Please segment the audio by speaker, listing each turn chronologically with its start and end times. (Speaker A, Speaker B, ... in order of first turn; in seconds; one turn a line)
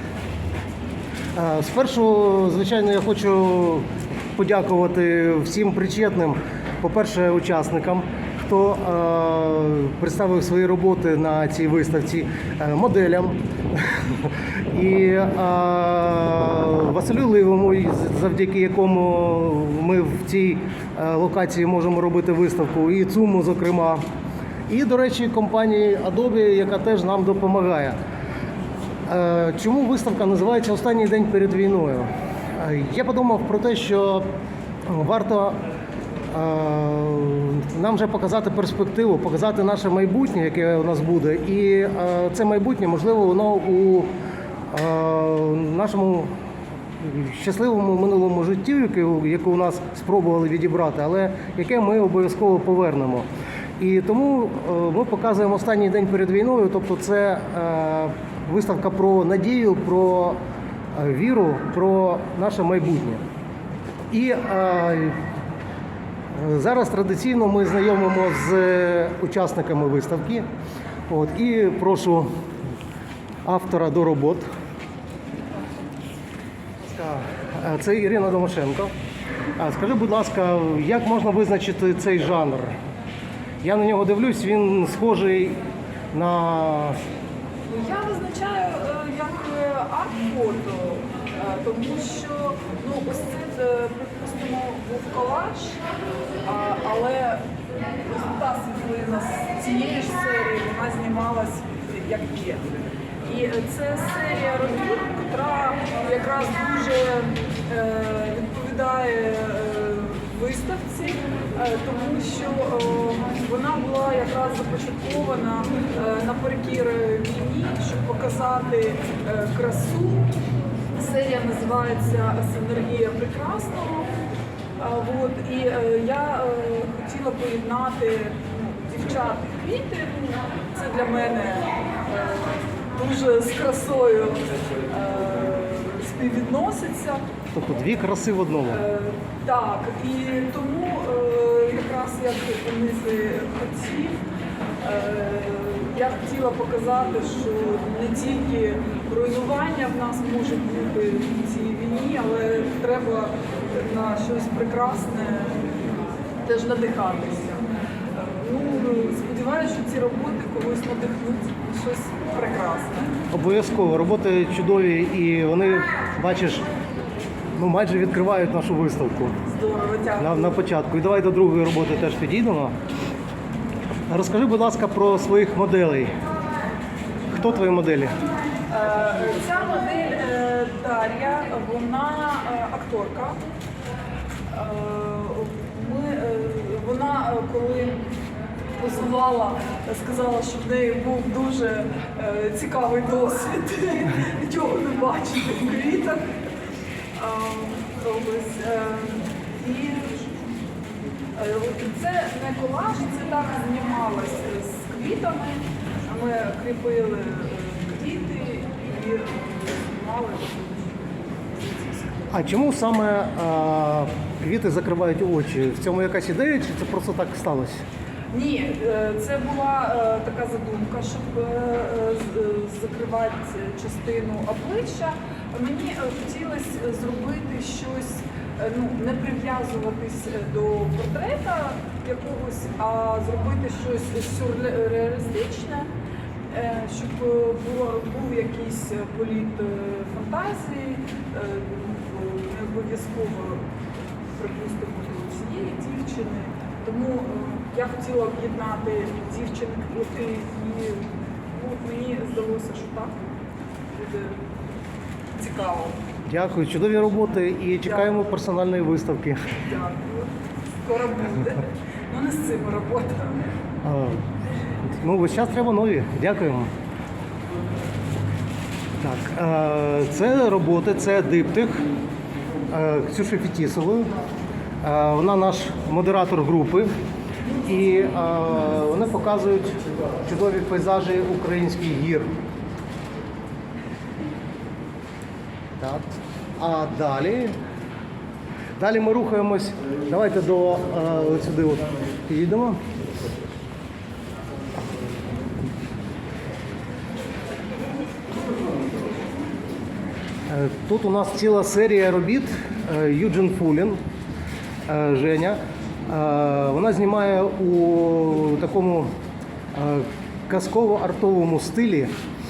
Speaker A: 1.3-24.0
Speaker A: 24.7-28.0
Speaker A: 29.1-34.3
Speaker A: 34.9-35.6
Speaker A: 36.3-44.1
Speaker A: 44.7-46.3
Speaker A: 47.0-53.3
Speaker A: 53.8-60.4
Speaker A: 60.9-63.2
Speaker A: 64.1-65.2
Speaker A: 66.3-70.5
Speaker A: 71.1-72.3
Speaker A: 73.4-74.5
Speaker A: 76.8-78.9
Speaker A: 79.6-82.8
Speaker A: 83.6-85.6
Speaker A: 86.1-87.0
Speaker B: 87.6-95.8
Speaker B: 96.4-97.4
Speaker B: 98.0-102.7
Speaker B: 103.2-120.3
Speaker B: 120.9-124.1
Speaker B: 124.8-137.2
Speaker A: 137.5-138.8
Speaker B: 138.7-144.2
Speaker B: 144.8-155.7
Speaker B: 156.4-163.1
Speaker A: 163.3-166.6
Speaker A: 167.5-169.3
Speaker B: 169.5-170.5
Speaker A: 170.2-172.7
Speaker A: 174.1-176.1
Speaker A: 177.3-178.2
Speaker B: 178.7-183.4
Speaker B: 184.5-188.1
Speaker B: 188.8-196.2
Speaker B: 197.1-200.3
Speaker B: 201.3-210.9
Speaker B: 211.6-212.1
Speaker A: 212.3-217.8
Speaker B: 218.3-235.9
Speaker B: 236.5-243.6
Speaker B: 244.4-253.2
Speaker B: 253.9-254.4
Speaker B: 255.3-255.9
Speaker A: 256.3-259.4
Speaker B: 259.6-260.3
Speaker B: 260.8-263.4
Speaker A: 263.8-264.2
Speaker A: 264.9-266.7
Speaker A: 269.0-271.8
Speaker A: 272.7-274.1
Speaker A: 274.8-276.9
Speaker A: 277.6-282.3
Speaker A: 285.8-287.5
Speaker A: 288.8-292.8
Speaker A: 300.5-304.0
Speaker A: 304.9-309.1
Speaker A: 309.7-312.1